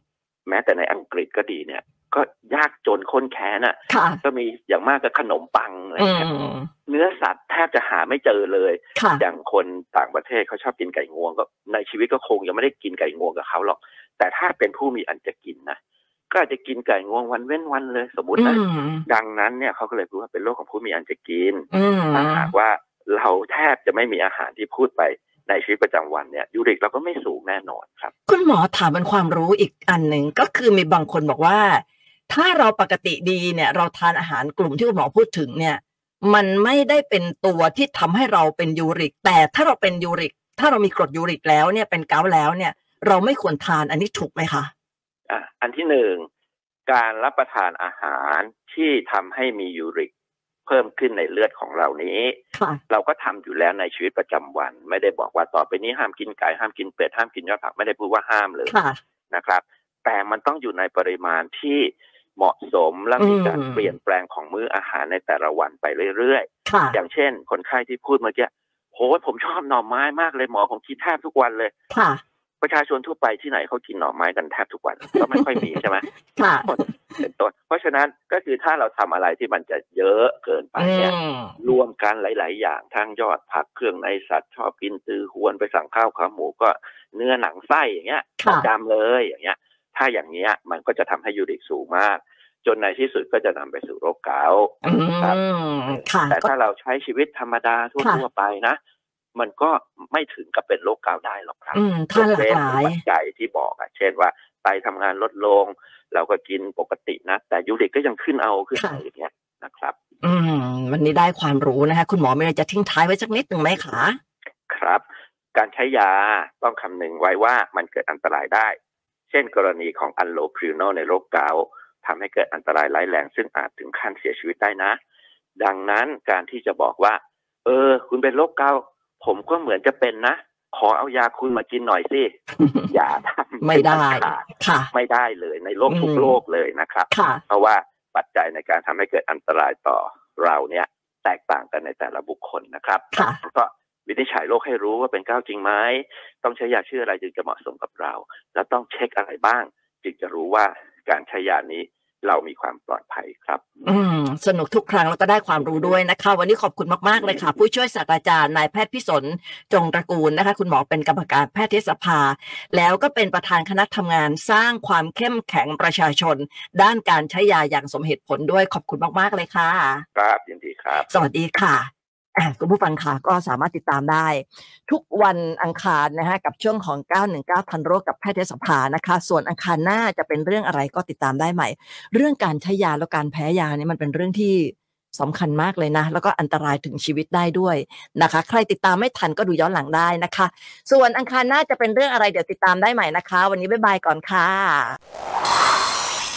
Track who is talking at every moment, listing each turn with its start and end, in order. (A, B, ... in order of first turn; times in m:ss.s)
0:00.5-0:06.3 A
0:03.9-0:04.2 B
0:06.0-0:06.7 B
0:06.8-0:15.8 A
0:09.0-0:09.2 B
0:16.3-0:28.1 A
0:18.4-0:19.0 B
0:21.7-0:22.5 B
0:28.3-0:44.7 B
0:45.3-0:46.3 A
0:46.9-0:50.1 A
0:50.6-0:58.8 A
0:58.7-0:59.0 B
0:59.3-1:11.7 A
1:03.2-1:03.8 B
1:06.6-1:07.0 B
1:11.9-1:12.2 B
1:12.6-1:16.1 A
1:16.3-1:16.7 B
1:16.6-1:35.4 A
1:20.8-1:21.6 B
1:28.4-1:28.7 B
1:34.8-1:36.5 B
1:35.9-1:38.8 A
1:39.3-1:50.0 A
1:41.7-1:43.0 B
1:48.7-1:49.0 B
1:50.2-1:54.2 B
1:54.7-1:55.0 A
1:55.5-1:58.8 A
1:59.3-2:05.0 A
2:05.6-2:33.6 A
2:12.6-2:12.9 B
2:13.6-2:14.9 B
2:15.9-2:16.3 B
2:17.1-2:17.4 B
2:23.1-2:23.4 B
2:33.8-2:50.0 B
2:50.1-2:51.2 A
2:51.1-3:15.0 B